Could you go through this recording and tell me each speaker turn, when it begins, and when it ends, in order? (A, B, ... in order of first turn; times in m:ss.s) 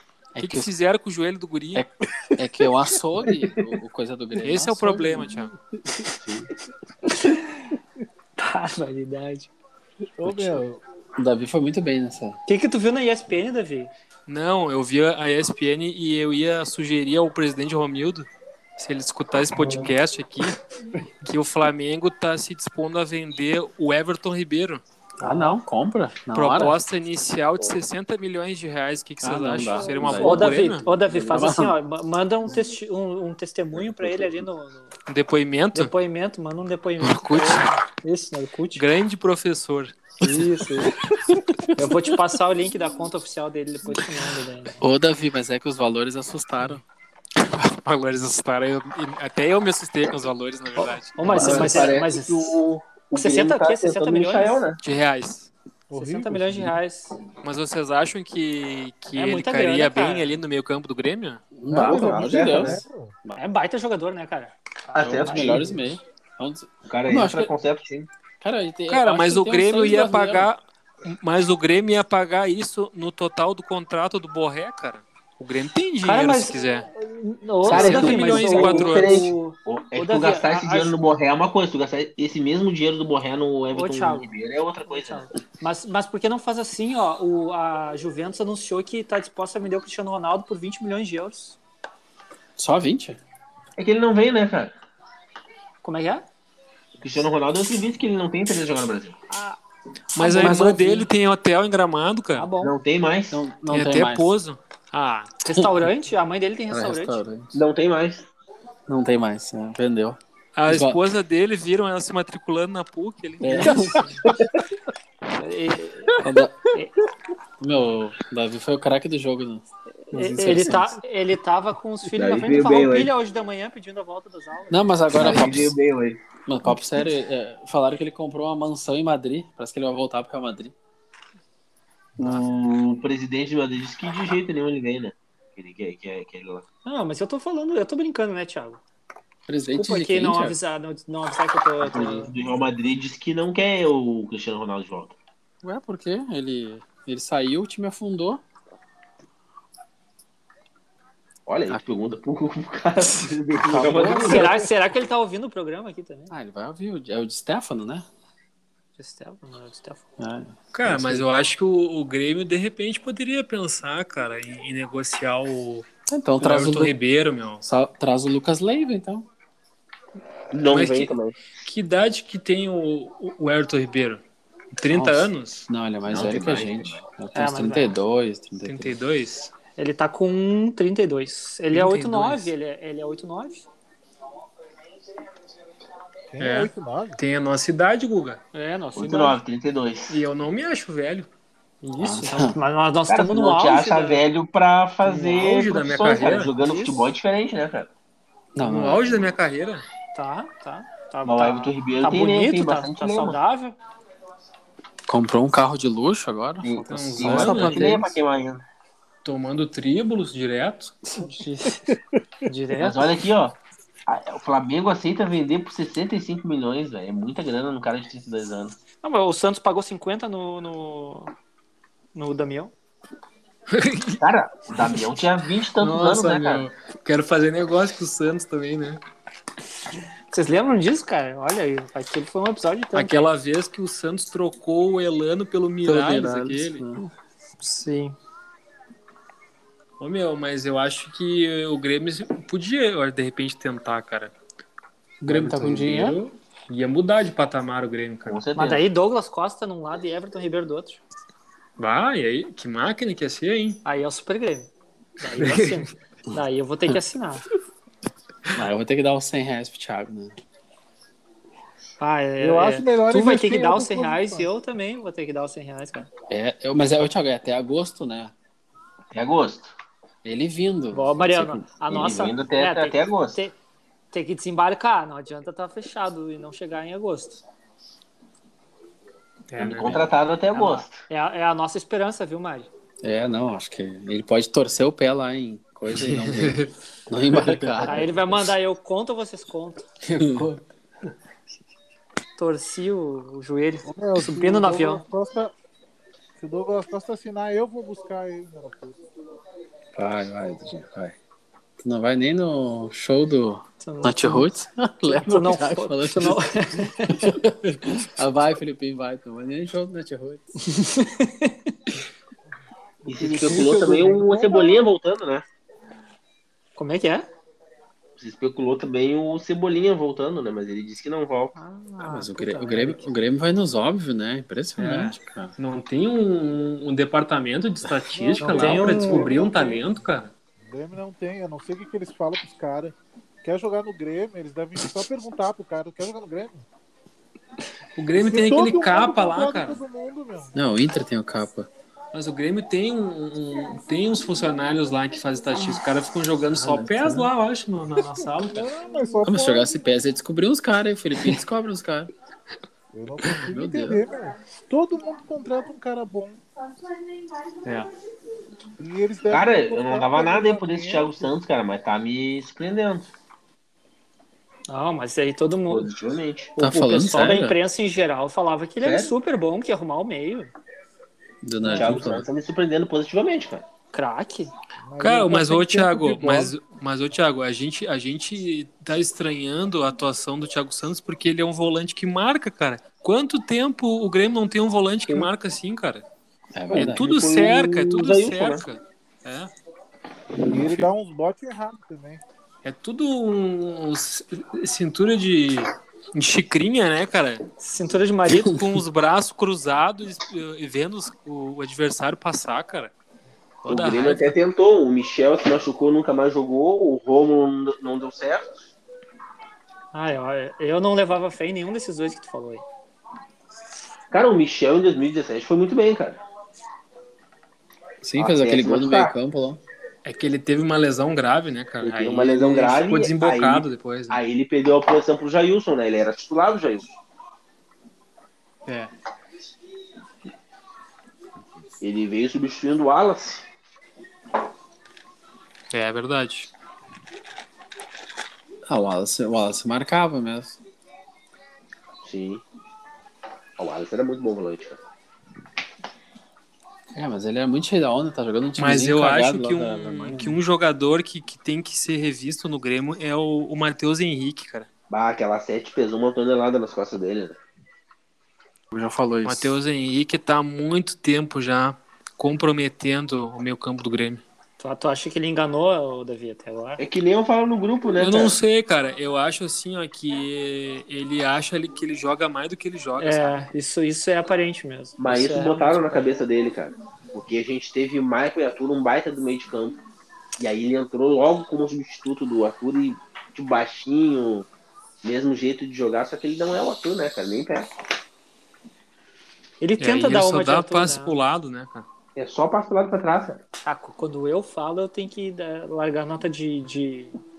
0:00.3-0:00.7 A
0:00.4-0:01.8 B
0:01.7-0:05.3 A
0:04.4-0:05.5 B
0:06.2-0:06.5 C
0:07.1-0:07.4 D
0:08.4-0:09.5 D
0:10.2-0:10.8 E
0:10.2-0:10.6 A
0:11.2-0:12.4 A
0:12.4-0:13.9 D
0:14.3-0:20.6 B
0:21.2-0:24.8 B
0:25.2-0:26.8 A
0:25.2-0:25.5 D
0:26.3-0:30.9 B
0:29.2-0:31.7 A
0:29.8-0:34.9 D
0:31.1-0:31.4 C
0:35.1-0:35.9 B
0:35.7-0:38.8 D
0:37.0-0:37.6 A
0:38.7-0:40.0 B
0:40.2-0:41.0 D
0:40.2-0:42.0 A
0:41.8-0:44.8 D
0:44.8-0:46.8 A
0:47.4-0:51.6 B
0:50.8-0:52.6 D
0:51.3-0:51.9 A
0:51.3-0:54.8 C
0:53.1-0:54.6 D
0:54.8-0:55.5 B
0:55.9-0:56.8 E
0:55.9-0:57.1 D
0:57.4-1:01.4 B
0:59.1-1:00.3 D
1:01.5-1:03.4 A
1:01.7-1:02.8 C
1:01.7-1:03.1 E
1:03.4-1:05.6 D
1:04.9-1:05.8 C
1:05.0-1:07.5 A
1:06.9-1:08.1 C
1:08.4-1:10.5 A
1:08.9-1:16.9 B
1:16.0-1:20.9 D
1:17.6-1:19.2 B
1:17.6-1:18.2 A
1:17.6-1:25.3 C
1:23.7-1:24.3 D
1:24.8-1:31.6 D
1:32.6-1:33.2 A
1:33.8-1:34.7 C
1:35.8-1:36.2 D
1:37.0-1:39.2 C
1:39.3-1:39.6 D
1:40.1-1:42.5 B
1:40.2-1:41.1 A
1:42.4-1:42.7 D
1:42.6-1:43.4 C
1:43.3-1:44.3 A
1:43.7-1:45.3 B
1:45.4-1:47.2 D
1:46.7-1:47.6 A
1:47.5-1:48.3 C
1:48.9-1:51.0 A
1:50.6-1:53.8 B
1:53.4-1:54.1 A
1:53.5-1:54.2 D
1:55.4-1:57.0 D
1:56.2-1:56.6 A
1:57.6-2:00.9 A
2:00.1-2:00.9 B
2:00.1-2:04.8 D
2:02.1-2:03.1 C
2:04.7-2:05.8 A
2:05.1-2:06.2 C
2:06.4-2:10.7 A
2:12.2-2:16.6 C
2:16.8-2:18.8 D
2:19.5-2:20.6 A
2:19.7-2:22.3 D
2:21.8-2:25.2 C
2:25.6-2:28.4 A
2:31.5-2:34.6 C
2:33.7-2:34.2 A
2:33.8-2:34.5 B
2:34.1-2:36.3 D
2:36.3-2:38.0 A
2:39.0-2:40.0 D
2:40.2-2:41.2 A
2:40.7-2:45.9 B
2:46.1-2:46.9 A
2:46.4-2:47.6 B
2:47.6-2:49.3 A
2:50.5-2:51.4 C
2:50.6-2:55.7 B
2:54.9-2:58.9 A
2:56.0-2:57.0 C
2:57.3-2:57.9 D
2:58.6-2:59.5 B
2:59.8-3:03.6 D
3:01.7-3:02.5 B
3:06.3-3:07.2 E
3:06.4-3:08.4 B
3:08.5-3:09.4 D
3:09.0-3:10.2 C
3:10.1-3:11.3 B
3:11.8-3:14.2 D
3:12.0-3:12.5 A
3:13.1-3:17.9 C
3:15.0-3:16.5 B
3:16.3-3:17.1 D
3:18.6-3:19.3 A
3:18.6-3:19.8 B
3:20.1-3:23.8 D
3:21.2-3:23.4 C
3:25.1-3:28.1 A
3:26.6-3:28.6 C
3:26.9-3:28.1 B
3:29.2-3:31.0 B
3:31.2-3:33.1 D
3:32.8-3:38.8 C
3:39.0-3:41.3 D
3:42.1-3:42.7 D
3:43.7-3:44.2 B
3:44.2-3:46.7 C
3:45.8-3:49.0 B
3:50.3-3:53.1 D
3:52.9-3:56.8 B
3:55.8-3:57.0 A
3:57.6-3:58.2 D
4:00.0-4:04.3 B
4:05.2-4:06.2 A
4:05.3-4:08.4 B
4:08.2-4:08.9 C
4:08.5-4:11.0 D
4:11.8-4:13.8 B
4:13.8-4:17.4 D
4:15.3-4:15.9 B
4:18.5-4:20.3 A
4:22.0-4:26.1 D
4:22.4-4:24.5 E
4:26.3-4:28.3 A
4:29.1-4:29.7 C
4:30.2-4:31.8 A
4:30.9-4:33.6 D
4:31.9-4:33.4 C
4:34.1-4:37.4 D
4:39.5-4:40.1 B
4:39.6-4:41.0 C
4:40.5-4:42.7 D
4:43.0-4:48.5 A
4:45.9-4:46.7 B
4:47.8-4:49.9 D
4:50.2-4:50.5 A
4:50.2-4:50.5 B
4:52.4-4:55.0 D
4:53.8-4:55.5 E
4:56.4-4:59.0 E
4:59.9-5:01.2 A
5:01.8-5:10.4 A
5:03.8-5:04.5 D
5:05.0-5:07.4 D
5:10.6-5:11.7 D
5:13.0-5:14.8 E
5:13.1-5:15.4 C
5:13.2-5:14.6 D
5:16.8-5:17.3 D
5:18.2-5:21.5 C
5:21.5-5:23.1 D
5:22.0-5:25.5 A
5:24.8-5:30.3 B
5:28.1-5:29.9 E
5:28.4-5:29.3 D
5:30.6-5:36.6 E
5:38.0-5:39.8 B
5:38.2-5:40.6 E
5:40.5-5:41.7 A
5:42.1-5:48.7 B
5:46.5-5:47.3 A
5:48.3-5:49.8 E
5:49.2-5:52.1 A
5:52.9-5:56.4 E
5:53.5-5:54.0 A
5:57.6-5:57.9 B
5:58.8-6:01.3 E
5:59.3-6:03.1 C
6:04.7-6:05.9 D
6:05.7-6:06.5 C
6:06.6-6:10.5 D
6:06.6-6:07.6 A
6:08.8-6:09.1 C
6:11.4-6:12.3 A
6:11.7-6:13.6 C
6:13.9-6:14.5 D
6:14.8-6:16.6 E
6:15.0-6:26.0 B
6:26.5-6:27.0 A
6:26.7-6:28.6 C
6:26.8-6:29.5 B
6:30.4-6:32.2 E
6:32.6-6:37.4 B
6:37.6-6:38.6 D
6:38.3-6:42.9 B
6:43.6-6:44.3 B
6:43.7-6:48.7 C
6:49.9-6:52.6 D
6:54.1-6:56.2 C
6:58.0-6:59.6 A
6:58.2-6:59.1 C
7:00.0-7:04.2 B
7:01.8-7:07.0 C
7:08.6-7:08.9 B
7:11.8-7:13.4 C
7:15.7-7:16.5 B
7:18.7-7:20.6 A
7:22.0-7:22.4 C
7:23.6-7:24.8 C
7:26.9-7:30.4 A
7:28.6-7:34.7 B
7:34.9-7:37.4 C
7:38.7-7:39.6 A
7:39.2-7:44.2 B
7:44.6-7:46.8 D
7:46.8-7:48.4 C
7:48.0-7:53.4 B
7:53.0-7:56.0 D
7:55.0-7:59.8 C
8:00.4-8:04.5 C
8:05.0-8:07.7 C
8:09.6-8:11.2 D
8:09.8-8:11.8 B
8:12.2-8:13.4 C
8:13.6-8:17.2 D